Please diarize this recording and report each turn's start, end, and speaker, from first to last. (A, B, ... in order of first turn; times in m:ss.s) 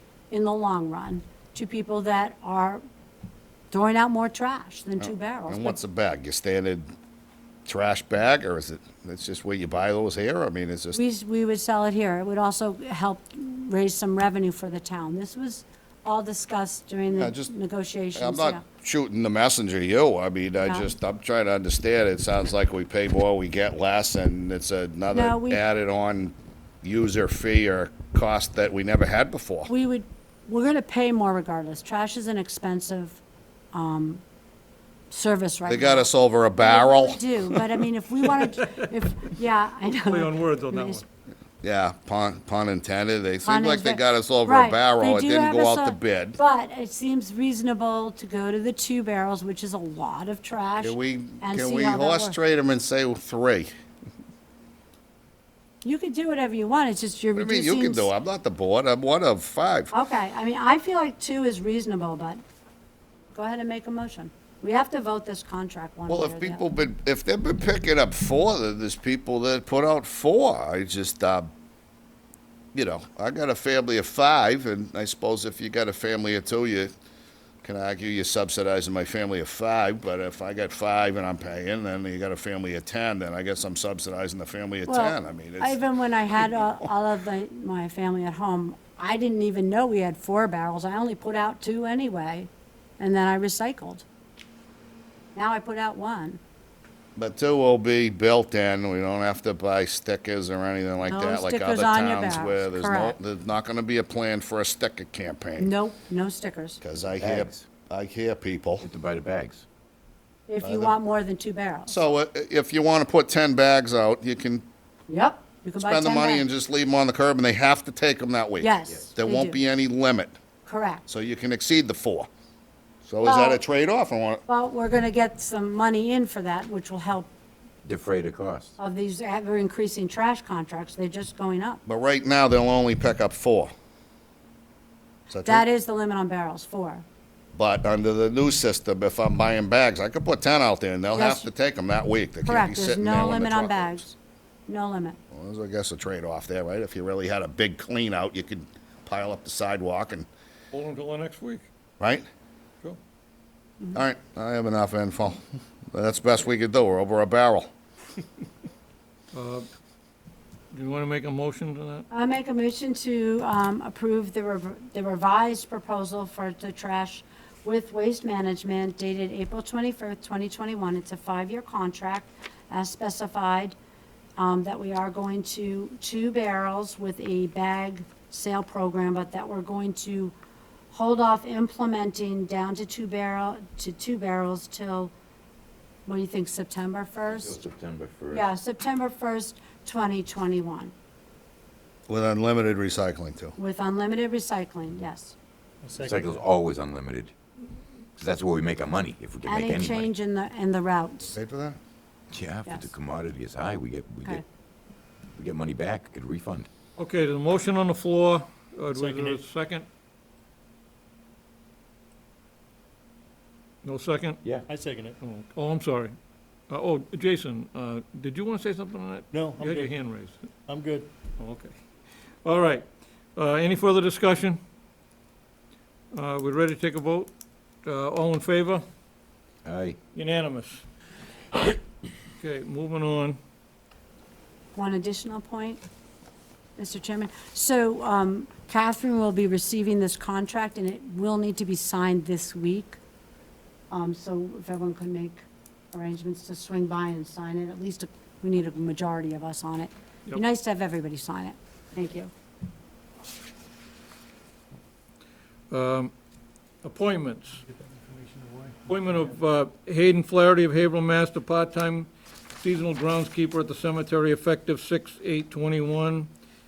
0:00.3-0:02.8 A
0:03.7-0:05.8 A
0:05.0-0:06.9 B
0:07.6-0:11.0 B
0:10.9-0:18.6 A
0:17.1-0:17.5 B
0:18.2-0:29.7 B
0:20.6-0:20.9 A
0:25.1-0:25.6 A
0:29.7-0:33.2 A
0:33.7-0:34.2 A
0:35.1-0:41.0 A
0:35.6-0:37.2 B
0:38.3-0:38.9 C
0:39.8-0:41.0 C
0:41.6-0:46.4 B
0:43.4-0:52.4 A
0:50.8-0:53.7 B
0:55.8-0:58.1 A
0:57.4-0:59.9 B
0:59.9-1:02.4 A
1:03.3-1:06.6 A
1:06.1-1:11.5 B
1:12.7-1:16.9 B
1:17.6-1:25.8 B
1:24.8-1:34.0 A
1:35.3-1:36.4 A
1:37.2-1:45.7 B
1:41.0-1:43.2 A
1:45.6-1:46.8 A
1:46.8-1:48.8 B
1:47.2-1:47.7 D
1:48.8-1:49.6 D
1:50.5-1:51.9 A
1:50.6-1:51.0 B
1:51.9-1:54.6 B
1:55.1-1:56.4 A
1:55.8-2:00.4 B
1:58.6-1:59.6 A
2:00.6-2:01.0 A
2:01.1-2:02.3 B
2:03.0-2:04.4 B
2:03.2-2:03.6 A
2:04.5-2:07.3 A
2:07.8-2:08.8 D
2:08.8-2:11.8 A
2:11.8-2:13.7 B
2:15.3-2:15.6 B
2:15.4-2:17.0 A
2:17.5-2:24.0 B
2:21.1-2:21.5 A
2:22.4-2:24.2 A
2:24.7-2:25.2 A
2:25.3-2:30.3 B
2:30.7-2:31.6 C
2:32.0-2:32.2 B
2:33.9-2:37.7 B
2:39.3-2:39.6 C
2:40.7-2:42.0 C
2:42.1-2:53.8 A
2:54.4-3:00.3 A
3:00.9-3:05.1 A
3:06.0-3:07.6 A
3:07.3-3:08.5 D
3:08.3-3:10.9 A
3:12.1-3:13.6 B
3:13.6-3:15.4 A
3:15.8-3:16.3 E
3:16.0-3:17.3 D
3:18.2-3:20.1 D
3:19.4-3:21.3 A
3:21.3-3:21.8 B
3:22.3-3:24.4 D
3:25.3-3:26.7 D
3:27.0-3:29.8 C
3:28.9-3:29.4 E
3:33.8-3:34.4 C
3:34.7-3:35.1 E
3:35.2-3:36.2 C
3:36.7-3:40.5 C
3:39.4-3:39.8 E
3:40.7-3:41.0 E
3:41.4-3:44.6 C
3:46.1-3:47.3 C
3:47.8-3:48.8 C
3:49.6-3:50.0 D
3:50.1-3:50.8 C
3:52.4-3:53.4 C
3:54.7-3:55.8 A
3:56.8-4:03.0 A
4:03.9-4:12.3 A
4:15.7-4:16.1 C
4:16.8-4:17.6 C
4:17.8-4:18.7 E
4:18.9-4:26.3 C